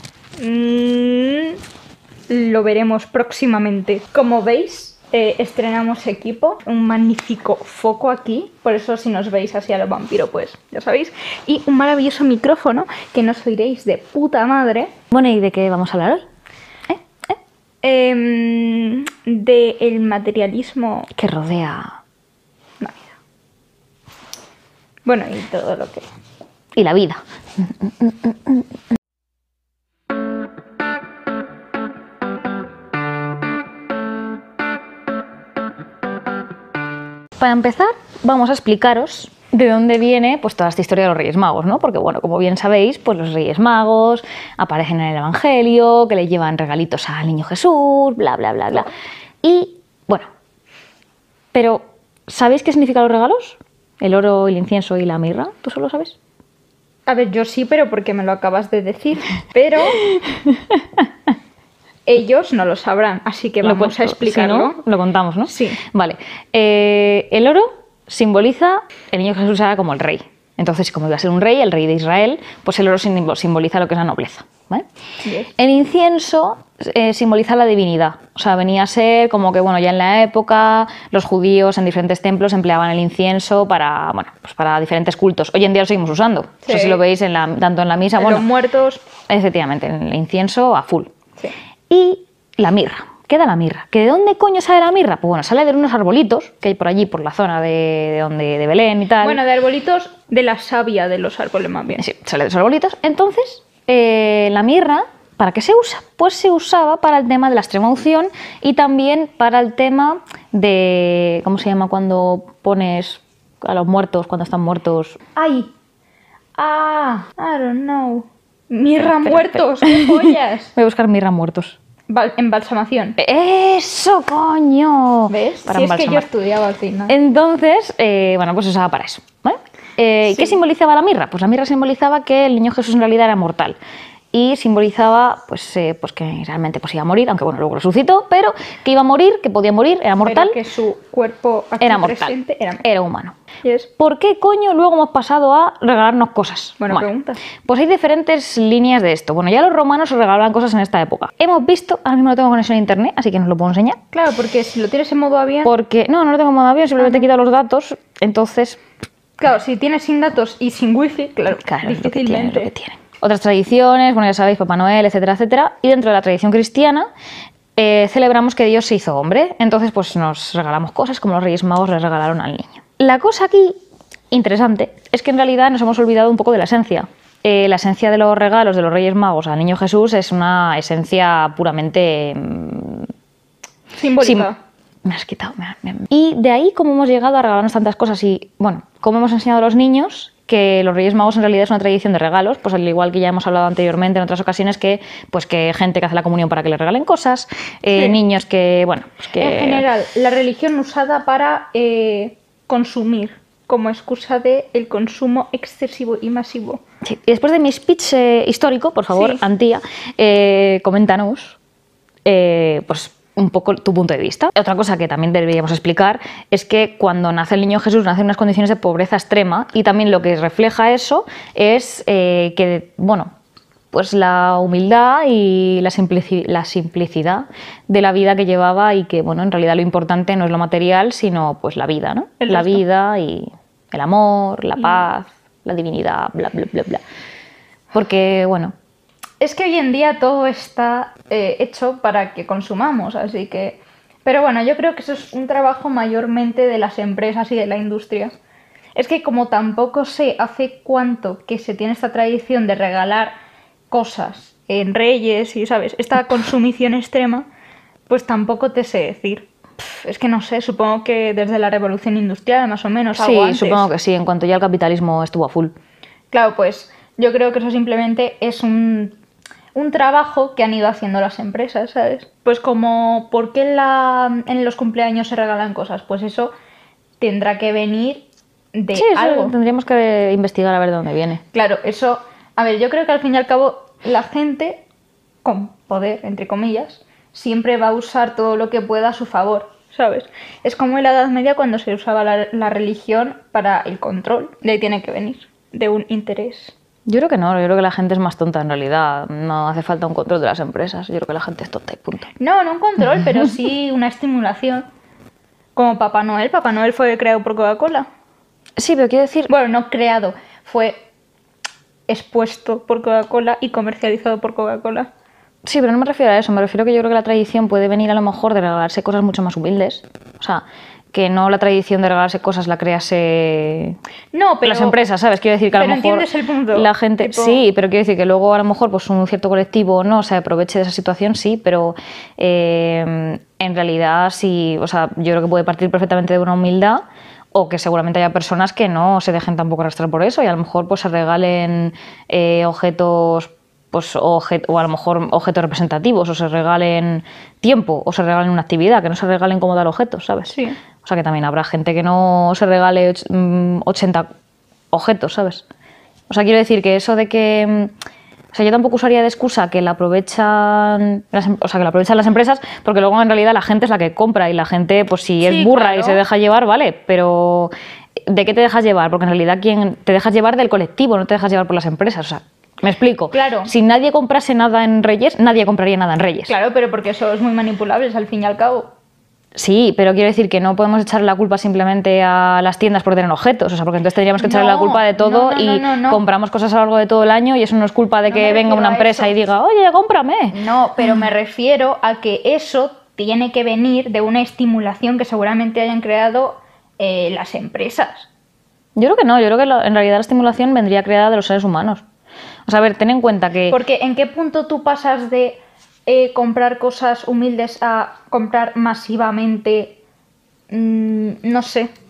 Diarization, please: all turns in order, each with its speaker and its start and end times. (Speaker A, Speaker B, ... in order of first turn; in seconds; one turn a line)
Speaker A: 0.4-1.6
Speaker A: 2.3-14.9
Speaker B: 15.1-16.2
Speaker A: 17.8-21.1
Speaker B: 21.1-21.9
Speaker A: 22.8-23.1
Speaker A: 25.1-26.1
Speaker B: 26.8-28.6
Speaker B: 37.4-48.9
Speaker B: 49.4-50.3
Speaker B: 51.5-56.1
Speaker A: 57.1-60.0
Speaker B: 60.0-60.8
Speaker A: 62.0-64.8
Speaker B: 63.6-74.8
Speaker A: 65.5-65.8
Speaker A: 75.2-75.5
Speaker B: 75.5-88.5
Speaker A: 86.7-87.0
Speaker A: 88.1-89.0
Speaker B: 89.3-91.1
Speaker B: 91.9-99.4
Speaker A: 99.2-102.0
Speaker B: 102.0-115.2
Speaker A: 115.3-115.7
Speaker A: 116.6-120.7
Speaker B: 119.0-121.8
Speaker A: 122.1-123.2
Speaker B: 123.2-126.3
Speaker A: 125.3-127.1
Speaker B: 127.1-133.8
Speaker A: 130.3-130.6
Speaker B: 134.3-140.6
Speaker A: 140.2-142.8
Speaker B: 141.8-143.3
Speaker A: 143.6-143.9
Speaker B: 144.0-147.1
Speaker A: 146.8-147.4
Speaker B: 147.6-154.0
Speaker A: 154.1-155.7
Speaker B: 155.6-158.8
Speaker A: 159.4-162.7
Speaker B: 161.5-167.1
Speaker B: 167.8-173.8
Speaker B: 174.3-183.1
Speaker A: 183.9-184.5
Speaker B: 184.2-184.5
Speaker B: 185.0-199.8
Speaker A: 197.9-198.2
Speaker A: 199.4-206.8
Speaker B: 207.0-211.6
Speaker A: 209.1-209.4
Speaker B: 212.2-223.3
Speaker B: 223.9-237.0
Speaker A: 232.4-232.8
Speaker B: 237.9-238.7
Speaker A: 239.4-248.3
Speaker A: 248.9-253.3
Speaker A: 253.9-257.4
Speaker A: 258.1-263.9
Speaker B: 263.2-265.7
Speaker A: 266.3-269.1
Speaker A: 269.7-276.5
Speaker A: 277.2-279.5
Speaker B: 278.9-281.4
Speaker A: 281.5-284.8
Speaker A: 285.4-296.7
Speaker B: 297.1-302.3
Speaker A: 302.4-304.8
Speaker A: 305.7-308.1
Speaker B: 308.8-309.5
Speaker A: 309.5-311.0
Speaker A: 312.1-315.1
Speaker B: 315.6-324.0
Speaker A: 324.3-325.0
Speaker B: 324.6-337.0
Speaker A: 325.7-327.6
Speaker B: 337.5-354.2
Speaker A: 350.5-350.8
Speaker B: 354.9-355.6
Speaker B: 356.3-357.9
Speaker B: 358.5-367.7
Speaker A: 365.4-366.2
Speaker B: 368.3-376.5
Speaker A: 373.3-373.7
Speaker A: 376.5-378.9
Speaker B: 379.6-390.5
Speaker A: 384.4-386.2
Speaker A: 388.3-389.4
Speaker A: 390.5-398.3
Speaker B: 398.9-402.0
Speaker B: 402.6-403.8
Speaker A: 403.7-409.9
Speaker A: 410.7-411.9